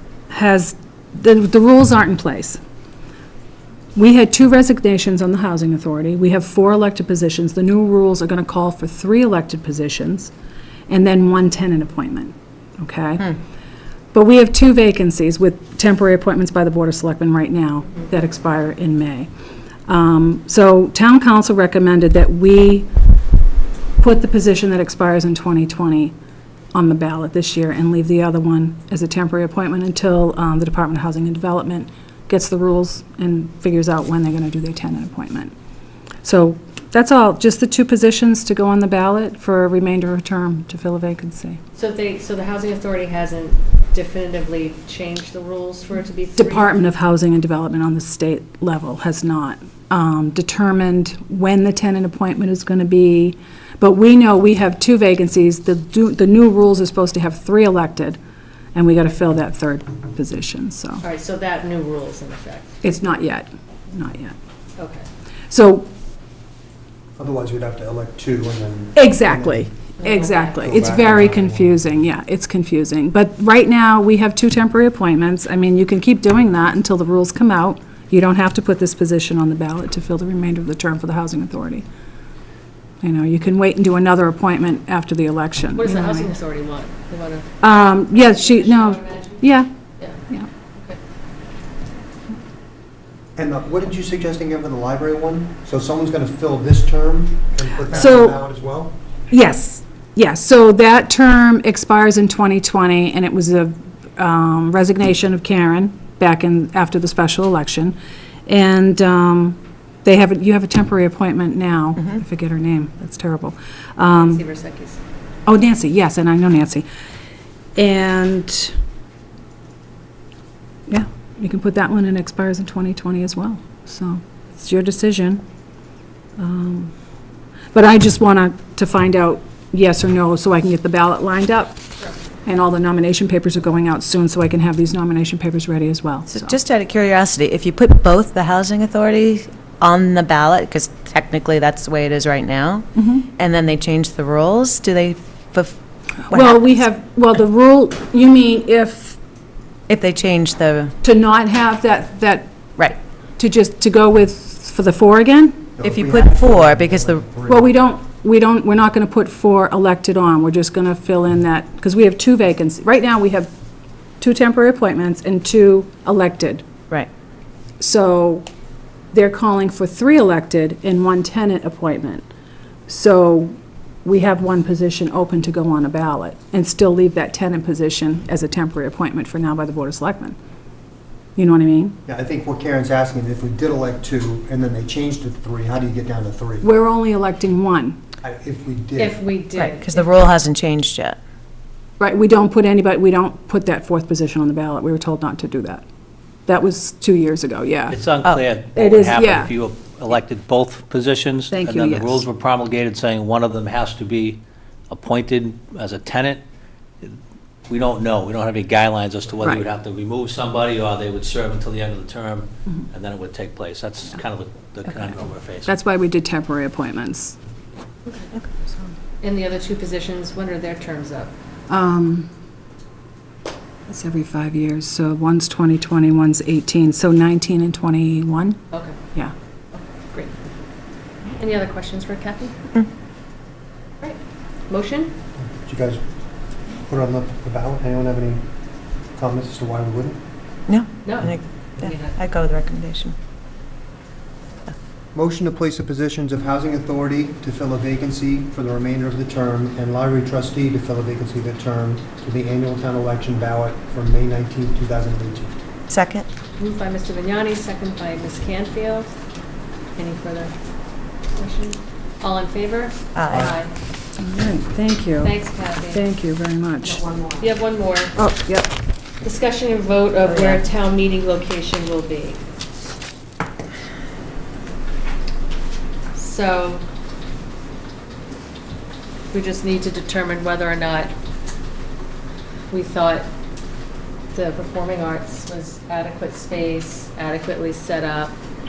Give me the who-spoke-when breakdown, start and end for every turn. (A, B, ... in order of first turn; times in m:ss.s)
0:00.3-0:02.6 A
0:04.0-0:10.3 A
0:10.9-0:13.4 A
0:14.1-0:19.3 A
0:19.9-0:22.9 A
0:24.0-0:26.1 A
0:26.7-0:35.5 A
0:36.2-0:41.6 A
0:41.8-0:46.8 B
0:46.4-0:58.2 A
0:58.7-1:01.0 A
1:01.0-1:02.8 B
1:02.8-1:04.4 A
1:04.8-1:05.1 B
1:05.5-1:05.9 A
1:07.2-1:09.7 C
1:09.0-1:21.8 A
1:10.0-1:10.7 B
1:10.6-1:11.8 C
1:23.0-1:26.3 A
1:25.8-1:27.5 B
1:27.6-1:29.7 A
1:28.1-1:29.4 B
1:33.4-1:39.0 C
1:37.9-1:38.4 A
1:39.3-1:54.4 A
1:54.1-1:55.0 B
1:55.5-1:56.9 A
1:57.8-1:58.8 A
2:00.9-2:05.4 A
2:06.4-2:06.9 A
2:07.7-2:11.8 A
2:12.4-2:16.5 A
2:16.3-2:25.8 D
2:23.0-2:23.3 A
2:26.3-2:29.2 A
2:26.3-2:26.7 D
2:29.9-2:30.9 D
2:31.0-2:32.6 A
2:33.4-2:35.6 A
2:35.8-2:37.7 C
2:35.8-2:37.2 D
2:37.5-2:43.5 A
2:44.2-2:46.7 A
2:47.8-2:48.5 A
2:49.1-2:52.3 A
2:52.9-3:00.4 A
3:01.4-3:02.0 A
3:02.1-3:06.7 C
3:06.6-3:08.0 A
3:08.2-3:09.2 C
3:09.0-3:10.2 B
3:09.6-3:11.2 D
3:12.0-3:15.8 A
3:16.5-3:18.0 A
3:17.9-3:26.4 E
3:18.7-3:19.5 A
3:21.5-3:22.3 A
3:27.7-3:35.8 E
3:35.7-3:37.4 A
3:39.2-3:41.3 B
3:41.7-3:42.3 A
3:43.9-3:48.6 A
3:49.8-3:50.3 B
3:51.4-3:52.6 B
3:54.0-3:55.2 B
3:55.4-3:56.0 C
3:56.9-3:58.5 C
3:59.2-4:00.2 C
4:00.7-4:03.2 D
4:01.0-4:02.2 B
4:05.1-4:15.6 C
4:15.9-4:16.3 D
4:16.6-4:19.1 B
4:20.0-4:20.5 B
4:21.4-4:23.7 B
4:23.2-4:23.6 D
4:24.2-4:27.0 A
4:25.2-4:26.0 B
4:27.0-4:27.5 D
4:27.4-4:28.1 B
4:28.2-4:28.7 A
4:29.2-4:32.4 B
4:30.2-4:30.6 D
4:36.2-4:36.8 B
4:39.3-4:41.1 B
4:42.7-4:43.3 B
4:44.3-4:48.4 B